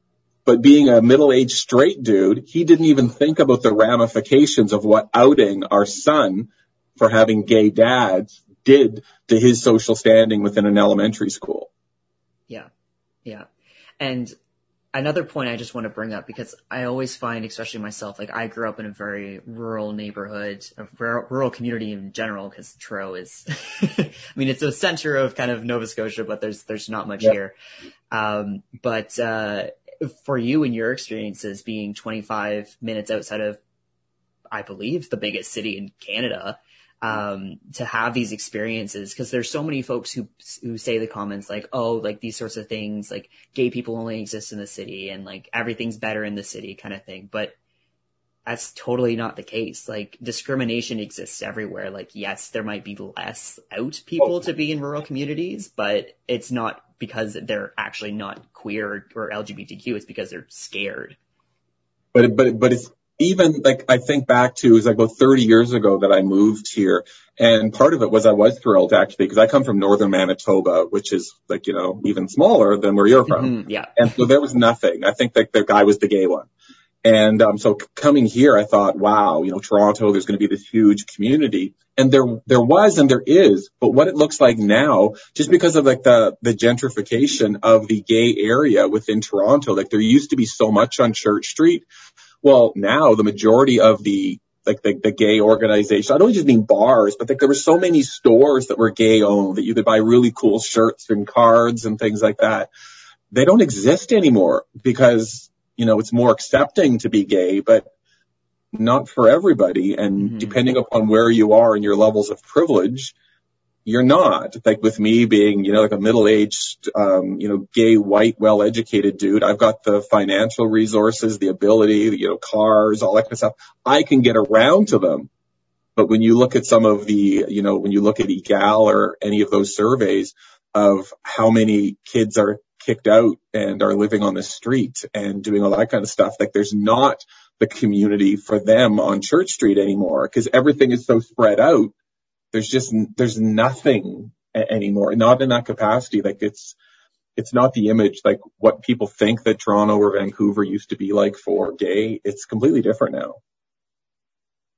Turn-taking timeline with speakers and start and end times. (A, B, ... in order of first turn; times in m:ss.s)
0:00.5-0:11.7 A
0:14.0-0:14.3 B
0:14.9-0:27.5 B
0:28.1-0:33.6 B
0:34.5-0:47.6 B
0:48.5-1:01.2 B
1:02.1-1:16.5 A
1:13.3-1:14.1 B
1:17.0-1:31.9 A
1:32.4-1:42.7 A
1:43.3-1:47.9 A
1:48.7-1:53.1 A
1:50.2-1:50.6 B
1:53.8-2:05.3 A
2:06.0-2:21.9 A
2:22.5-2:26.8 A
2:27.4-2:33.4 A